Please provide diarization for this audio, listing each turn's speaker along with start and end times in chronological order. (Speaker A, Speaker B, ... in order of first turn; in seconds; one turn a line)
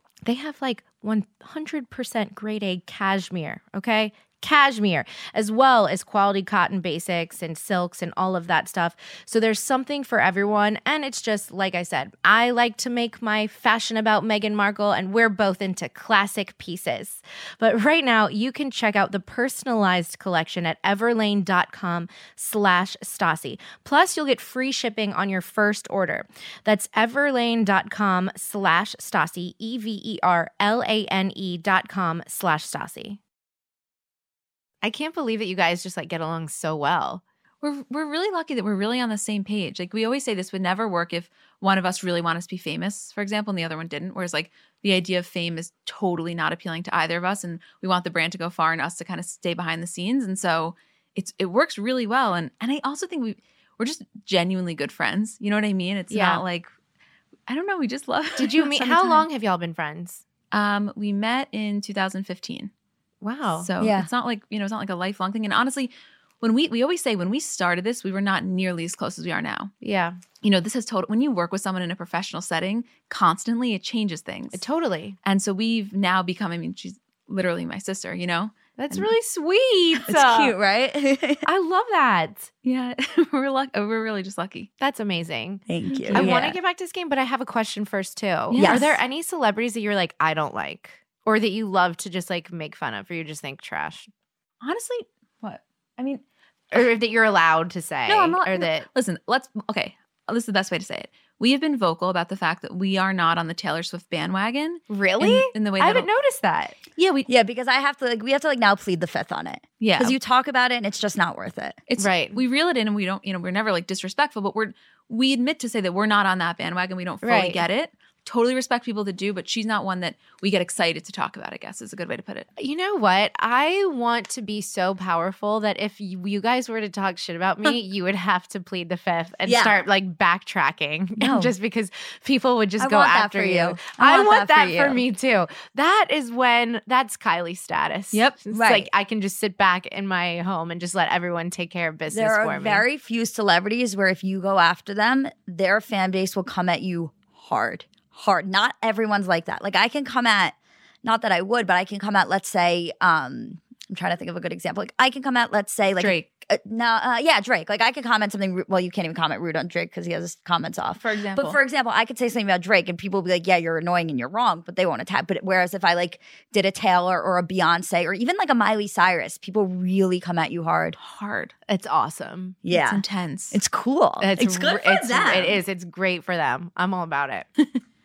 Speaker A: 0.2-33.2
Speaker A: 34.8-37.2
Speaker B: 37.6-56.7
Speaker A: 56.1-56.4
Speaker B: 57.5-59.3
Speaker A: 58.4-60.2
Speaker B: 60.5-62.7
Speaker A: 63.2-63.7
Speaker B: 63.6-69.7
Speaker C: 63.8-64.1
Speaker A: 69.8-70.2
Speaker B: 70.4-74.6
Speaker A: 74.5-75.2
Speaker B: 75.2-78.5
Speaker A: 78.8-80.5
Speaker C: 80.1-81.5
Speaker A: 81.5-82.5
Speaker B: 82.6-84.7
Speaker A: 84.8-94.1
Speaker C: 85.7-86.6
Speaker B: 85.9-86.4
Speaker B: 88.5-88.9
Speaker C: 88.5-89.0
Speaker B: 94.6-96.2
Speaker A: 96.7-98.9
Speaker B: 98.1-106.1
Speaker A: 104.9-106.8
Speaker B: 107.0-107.3
Speaker C: 107.3-111.8
Speaker B: 109.8-110.2
Speaker B: 111.9-122.5
Speaker A: 112.0-112.4
Speaker A: 117.2-117.6
Speaker A: 122.6-142.8
Speaker C: 129.5-129.7
Speaker C: 131.2-131.5
Speaker C: 132.8-135.0
Speaker C: 138.5-138.9
Speaker C: 142.1-171.0
Speaker B: 161.0-161.6
Speaker B: 171.0-171.5
Speaker A: 171.7-172.6
Speaker C: 172.6-175.6
Speaker B: 172.7-173.6
Speaker A: 174.2-177.5